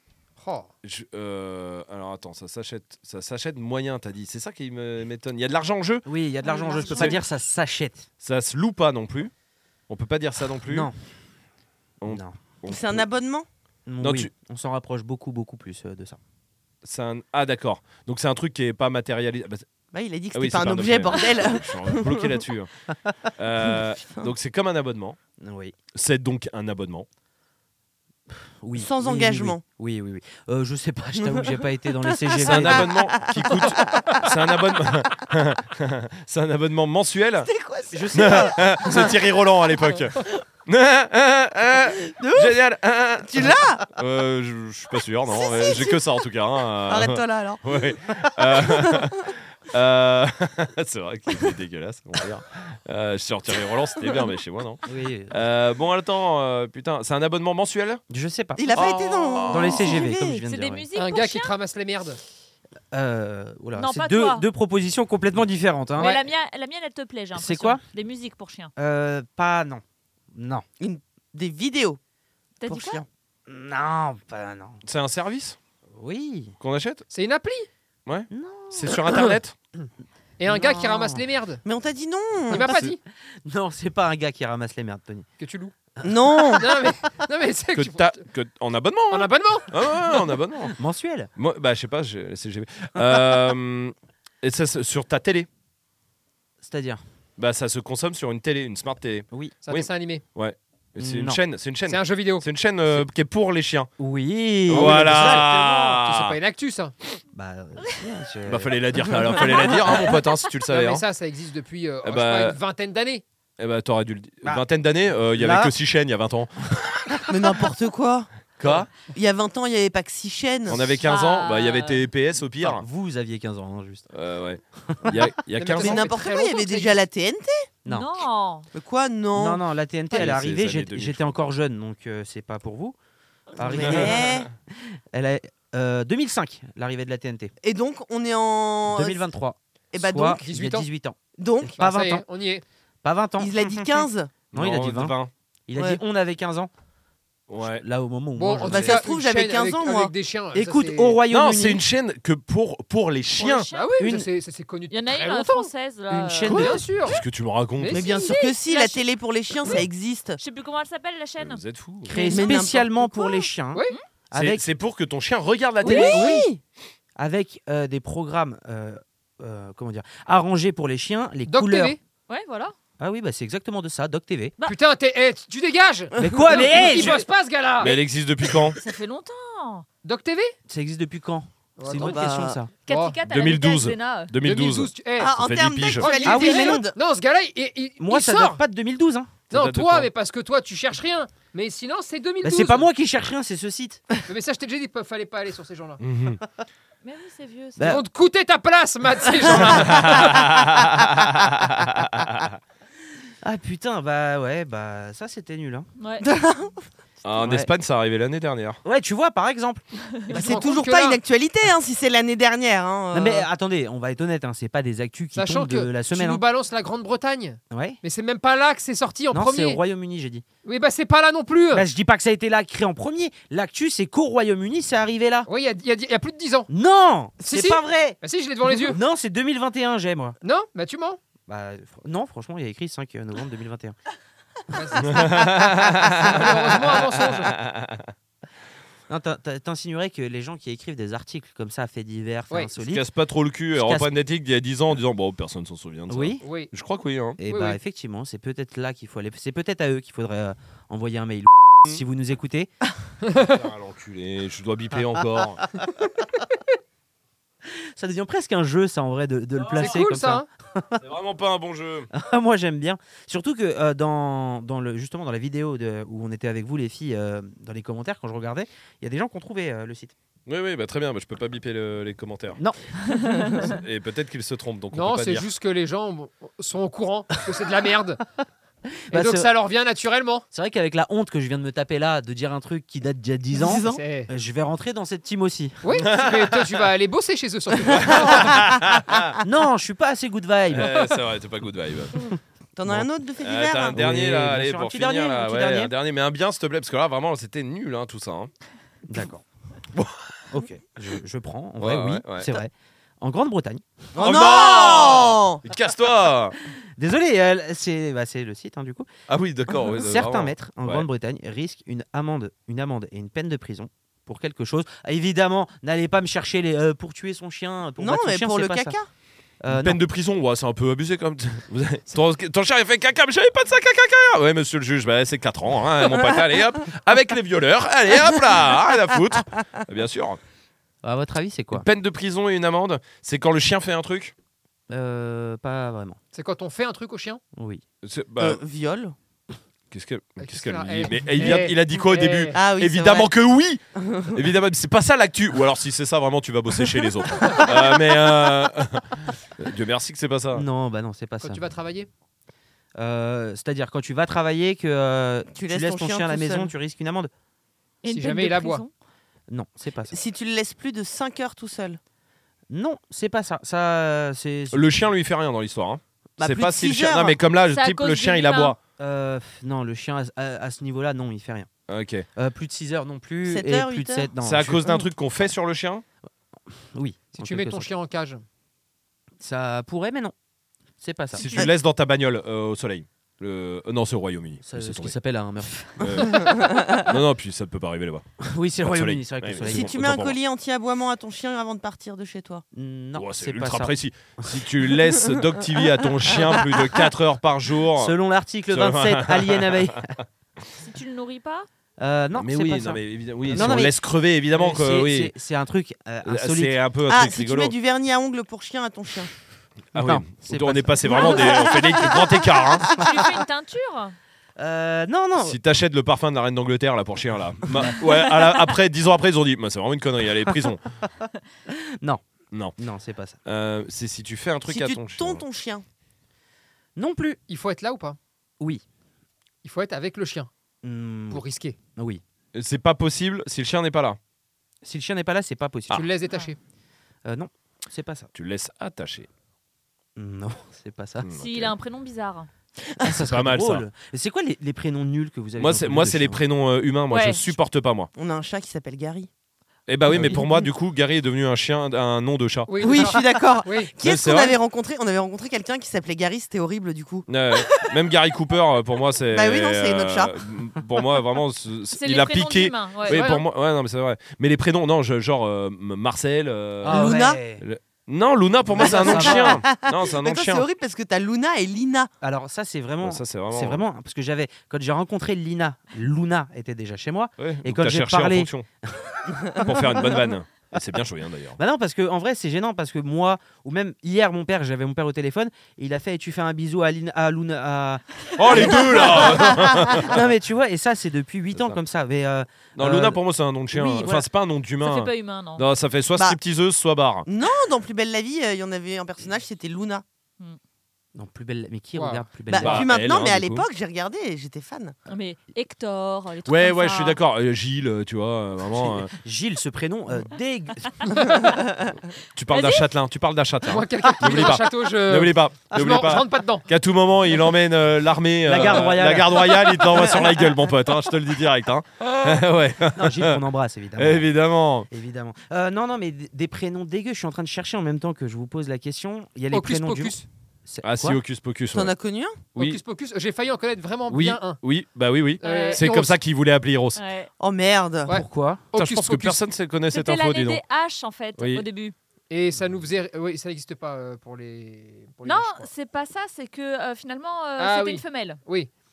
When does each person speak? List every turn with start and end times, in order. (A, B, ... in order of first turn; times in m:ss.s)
0:00.4-0:00.7 A
0:00.8-0:06.1 B
0:06.0-0:08.1 C
0:06.4-0:07.2 D
0:08.2-0:09.3 B
0:09.9-0:10.9 B
0:10.7-0:11.0 C
0:12.0-0:13.0 B
0:12.1-0:12.4 C
0:12.7-0:13.5 E
0:13.9-0:16.2 C
0:14.0-0:14.3 B
0:16.8-0:19.7 B
0:19.9-0:22.4 E
0:20.3-0:22.7 B
0:23.3-0:25.2 B
0:23.7-0:24.3 E
0:25.4-0:25.8 C
0:25.9-0:27.1 B
0:28.3-0:32.9 C
0:28.8-0:29.6 E
0:31.2-0:34.6 E
0:32.4-0:37.5 B
0:37.5-0:39.1 E
0:37.9-0:38.7 C
0:38.1-0:58.0 B
0:42.1-0:42.6 E
0:43.2-0:43.9 E
0:45.3-0:46.2 E
0:46.9-0:49.1 E
0:54.9-0:55.4 C
0:58.1-1:00.9 C
0:58.6-1:00.4 E
0:58.7-1:00.0 B
1:00.4-1:01.5 D
1:01.0-1:02.2 A
1:02.9-1:06.2 C
1:03.8-1:04.4 D
1:06.0-1:08.7 D
1:07.4-1:07.8 C
1:08.8-1:10.6 C
1:10.8-1:12.0 E
1:12.6-1:13.0 D
1:12.7-1:13.1 E
1:13.5-1:14.8 C
1:14.8-1:15.6 B
1:16.0-1:16.6 C
1:16.6-1:17.0 B
1:17.1-1:17.7 A
1:18.1-1:19.6 B
1:18.3-1:19.1 C
1:20.4-1:21.6 A
1:20.5-1:21.2 C
1:21.6-1:22.8 E
1:22.5-1:23.0 A
1:22.7-1:23.0 B
1:23.4-1:25.3 C
1:25.4-1:25.7 A
1:26.0-1:26.6 C
1:26.0-1:26.7 E
1:26.5-1:28.2 A
1:27.7-1:30.8 B
1:29.1-1:29.7 A
1:30.7-1:31.3 C
1:31.4-1:35.5 B
1:36.6-1:37.0 C
1:37.4-1:43.9 B
1:39.6-1:40.2 A
1:41.0-1:41.4 C
1:41.9-1:42.5 A
1:44.0-1:46.0 C
1:44.7-1:46.4 B
1:44.7-1:46.9 A
1:47.3-1:50.0 C
1:48.4-1:51.0 B
1:50.7-1:53.2 A
1:52.0-1:52.6 B
1:53.6-1:57.2 B
1:55.3-1:55.7 C
1:57.3-1:58.3 E
1:58.6-1:58.9 B
1:59.1-2:01.0 E
2:00.7-2:02.8 B
2:01.1-2:02.0 D
2:02.6-2:04.1 C
2:04.1-2:06.1 B
2:04.9-2:05.3 C
2:05.6-2:07.0 A
2:05.8-2:07.7 E
2:07.9-2:08.7 D
2:08.7-2:09.6 E
2:09.4-2:13.0 C
2:10.1-2:11.4 B
2:13.6-2:17.5 C
2:13.6-2:14.5 E
2:13.8-2:14.4 B
2:17.6-2:19.2 E
2:18.9-2:22.2 C
2:19.9-2:20.4 E
2:20.4-2:20.9 A
2:21.4-2:21.8 E
2:21.8-2:22.6 A
2:23.0-2:25.2 C
2:23.4-2:24.3 E
2:24.5-2:25.3 B
2:25.7-2:26.7 C
2:27.5-2:27.8 B
2:27.6-2:29.0 C
2:28.4-2:31.2 A
2:28.6-2:30.1 E
2:30.5-2:31.8 C
2:31.3-2:33.7 B
2:33.4-2:34.1 D
2:33.7-2:35.7 A
2:34.0-2:34.3 C
2:34.9-2:36.8 D
2:36.1-2:36.8 C
2:36.4-2:37.2 A
2:37.0-2:38.0 B
2:37.8-2:38.4 A
2:37.9-2:40.4 E
2:38.1-2:39.0 D
2:40.4-2:41.6 D
2:41.4-2:42.2 B
2:42.1-2:44.6 C
2:42.1-2:42.6 D
2:42.1-2:43.1 E
2:44.3-2:46.3 B
2:45.8-2:46.3 D
2:45.8-2:46.6 E
2:45.9-2:46.5 C
2:47.2-2:52.0 C
2:51.5-2:52.0 A
2:52.3-2:52.7 D
2:53.0-2:54.5 C
2:54.6-2:58.0 A
2:56.2-2:57.1 E
2:56.2-2:57.2 C
2:57.8-2:58.8 B
2:58.8-2:59.9 D
3:00.0-3:00.5 A
3:00.7-3:02.7 C
3:01.8-3:02.3 A
3:01.9-3:02.6 E
3:02.9-3:04.4 D
3:02.9-3:03.2 A
3:03.2-3:06.1 B
3:04.4-3:05.4 A
3:05.2-3:07.0 E
3:06.0-3:08.6 A
3:06.2-3:06.9 C
3:08.0-3:09.3 C
3:09.5-3:10.1 B
3:09.5-3:12.9 A
3:12.4-3:14.0 C
3:14.3-3:16.0 A
3:16.0-3:16.4 B
3:17.0-3:18.0 D
3:17.8-3:18.0 C
3:17.8-3:20.3 A
3:19.6-3:22.6 B
3:23.4-3:25.9 C
3:26.0-3:26.3 D
3:26.2-3:26.8 E
3:27.2-3:28.8 B
3:27.3-3:27.7 C
3:28.8-3:29.8 C
3:30.1-3:30.4 D
3:30.3-3:31.2 A
3:30.3-3:33.5 E
3:33.1-3:36.4 C
3:35.4-3:39.8 A
3:37.7-3:38.0 C
3:39.3-3:40.4 C
3:40.6-3:41.9 A
3:41.7-3:45.5 C
3:45.5-3:46.7 A
3:46.7-3:50.4 C
3:47.4-3:49.0 A
3:50.4-3:51.2 A
3:51.5-3:54.0 C
3:54.7-3:57.6 A
3:55.0-3:58.1 B
3:59.1-4:03.0 C
4:02.8-4:07.4 B
4:03.8-4:04.1 C
4:06.1-4:06.4 C
4:06.4-4:06.7 A
4:07.4-4:12.7 C
4:07.5-4:07.8 A
4:13.2-4:13.5 A
4:13.4-4:15.6 B
4:17.7-4:21.0 C
4:19.7-4:20.5 A
4:21.0-4:22.1 B
4:22.1-4:30.1 C
4:30.5-4:32.6 B
4:32.6-4:33.4 C
4:33.1-4:33.7 D
4:33.6-4:35.5 B
4:34.9-4:38.2 A
4:39.1-4:39.5 C
4:39.1-4:40.4 A
4:40.5-4:45.8 C
4:43.5-4:44.0 E
4:43.7-4:44.3 A
4:45.8-4:48.6 A
4:45.9-4:46.8 B
4:47.9-4:49.4 B
4:49.4-4:51.0 C
4:50.7-4:52.3 B
4:52.8-4:54.0 E
4:53.4-4:58.5 B
4:53.9-4:55.9 C
4:59.1-4:59.4 C
4:59.9-5:00.4 B
5:00.5-5:03.8 C
5:01.8-5:02.6 B
5:04.2-5:05.6 E
5:04.2-5:06.6 B
5:07.0-5:09.1 C
5:09.3-5:11.1 B
5:09.8-5:19.0 C
5:18.0-5:19.1 E
5:19.6-5:20.0 C
5:19.7-5:30.4 B
5:31.0-5:31.8 C
5:31.7-5:34.3 B
5:34.9-5:36.2 C
5:36.3-5:37.4 A
5:37.6-5:37.8 C
5:38.0-5:38.6 B
5:38.4-5:39.2 E
5:39.9-5:50.7 B
5:40.4-5:42.6 A
5:42.5-5:43.3 E
5:44.0-5:44.4 E
5:50.5-5:51.7 C
5:51.4-5:52.1 A
5:53.0-5:57.3 C
5:55.6-5:56.7 E
5:58.0-5:58.9 D
5:58.1-5:58.8 A
5:59.5-6:00.2 C
6:00.1-6:02.0 E
6:02.7-6:05.0 C
6:04.7-6:08.8 B
6:06.4-6:07.4 E
6:07.7-6:08.8 D
6:09.0-6:11.7 C
6:11.9-6:12.3 B
6:12.4-6:15.0 C
6:13.4-6:14.3 E
6:14.4-6:16.0 B
6:16.7-6:17.9 C
6:17.4-6:18.4 A
6:19.4-6:20.3 C
6:21.0-6:21.5 C
6:21.3-6:25.2 B
6:24.6-6:26.3 C
6:26.0-6:28.2 B
6:26.3-6:27.0 E
6:28.4-6:30.0 C
6:28.8-6:30.4 B
6:29.6-6:32.6 E
6:32.7-6:34.6 C
6:33.2-6:38.2 B
6:38.0-6:40.2 C
6:38.7-6:40.1 B
6:40.8-6:41.7 D
6:42.0-6:44.0 C
6:42.4-6:45.3 B
6:44.5-6:46.8 C
6:46.2-6:47.7 B
6:47.1-6:49.3 E
6:49.9-6:52.9 B
6:50.0-6:52.1 C
6:52.9-6:54.2 D
6:54.6-6:55.6 C
6:55.4-7:00.8 B
7:01.7-7:02.2 C
7:02.8-7:03.4 C
7:03.4-7:05.4 B
7:04.7-7:05.8 E
7:07.0-7:07.4 C
7:07.5-7:08.2 A
7:09.6-7:10.5 A
7:10.8-7:11.4 C
7:11.3-7:11.8 A
7:12.0-7:12.2 C
7:12.5-7:14.2 B
7:14.8-7:16.0 C
7:15.9-7:16.6 A
7:17.2-7:18.3 C
7:18.3-7:19.3 B
7:20.2-7:21.3 C
7:21.2-7:21.7 B
7:21.4-7:22.5 D
7:23.0-7:26.4 C
7:23.1-7:23.9 B
7:25.6-7:28.1 B
7:27.1-7:27.5 D
7:28.2-7:29.3 E
7:29.9-7:32.7 B
7:30.1-7:30.5 C
7:32.7-7:33.9 A
7:32.8-7:37.9 E
7:34.0-7:34.6 B
7:37.3-7:50.7 B
7:39.3-7:40.4 E
7:41.9-7:43.4 D
7:43.1-7:43.4 A
7:46.8-7:47.6 C
7:46.9-7:47.4 E
7:48.7-7:49.6 C
7:48.8-7:52.1 E
7:52.2-7:59.7 C
7:53.0-7:53.8 B
7:57.4-7:58.7 B
7:59.6-8:01.6 B
8:01.6-8:14.2 C
8:08.4-8:10.2 B
8:12.8-8:17.3 B
8:14.8-8:15.7 D
8:17.3-8:20.0 E
8:21.2-8:22.9 C
8:22.0-8:22.2 A
8:22.5-8:25.0 E
8:22.6-8:23.7 B
8:25.1-8:27.2 D
8:26.5-8:29.1 B
8:28.9-8:31.1 C
8:32.4-8:43.4 B
8:32.5-8:32.9 D
8:33.7-8:36.7 A
8:38.4-8:40.3 C
8:43.0-8:44.3 C
8:44.0-8:44.9 B
8:44.9-8:51.2 C
8:49.5-8:50.3 A
8:50.8-8:51.9 B
8:51.7-8:52.4 E
8:52.6-8:52.8 B
8:52.6-8:54.6 A
8:54.1-8:57.0 B
8:55.4-8:55.8 D
8:55.4-8:56.1 A
8:57.0-8:57.3 D
8:57.4-8:58.2 E
8:58.1-8:59.4 A
8:58.1-8:58.6 C
8:58.8-9:00.6 B
8:59.9-9:02.0 D
9:01.4-9:01.6 B
9:02.3-9:05.7 A
9:05.2-9:08.4 D
9:07.6-9:08.7 A